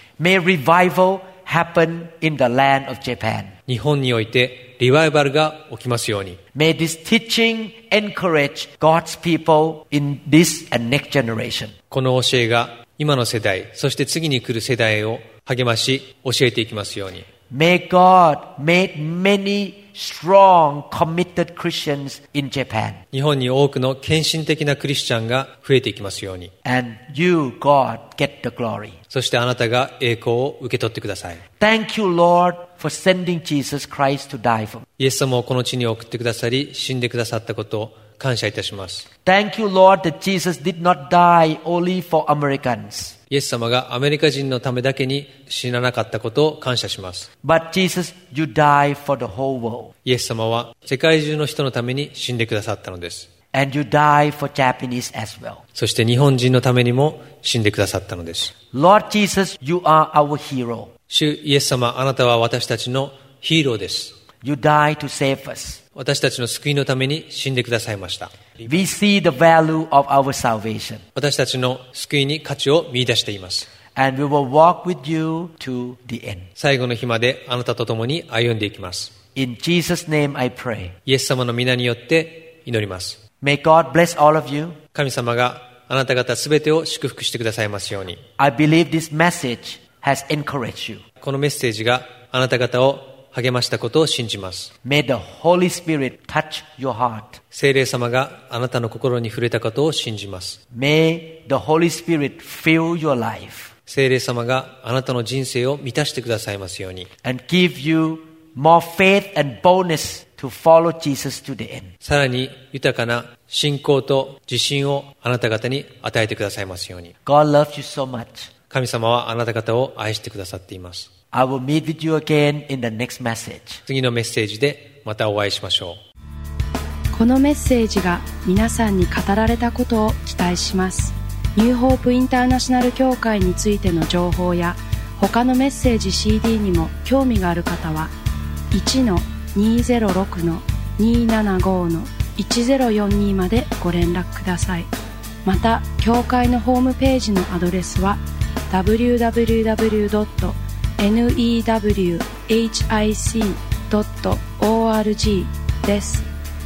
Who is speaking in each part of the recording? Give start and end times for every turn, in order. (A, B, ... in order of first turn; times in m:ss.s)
0:00.2-0:03.5 A
0:03.7-0:06.4 B
0:06.5-0:11.7 A
0:11.9-0:17.3 B
0:17.5-0:23.0 A
0:23.1-0:26.5 B
0:26.6-0:29.0 A
0:29.1-0:31.4 B
0:31.6-0:34.9 A
0:35.0-0:39.1 B
0:39.2-0:43.2 A
0:43.3-0:47.3 B
0:47.4-0:49.9 A
0:50.0-0:53.3 B
0:53.5-0:55.6 A
0:55.7-0:58.5 B
0:58.7-1:00.9 A
1:01.1-1:04.2 B
1:04.4-1:05.8 A
1:05.9-1:08.7 B
1:08.6-1:11.0 A
1:11.1-1:13.7 B
1:13.9-1:16.5 A
1:16.6-1:19.1 B
1:19.3-1:21.0 A
1:21.0-1:23.2 B
1:23.4-1:24.8 A
1:24.9-1:28.2 B
1:28.4-1:31.0 A
1:31.2-1:34.7 B
1:34.8-1:37.4 A
1:37.5-1:40.6 B
1:40.7-1:43.7 A
1:43.9-1:47.1 B
1:47.2-1:51.9 A
1:52.0-1:57.1 B
1:57.2-1:58.5 A
1:58.7-2:01.1 B
2:01.3-2:03.8 A
2:03.9-2:06.0 B
2:07.1-2:18.1 C
2:18.7-2:24.9 C
2:25.4-2:36.2 C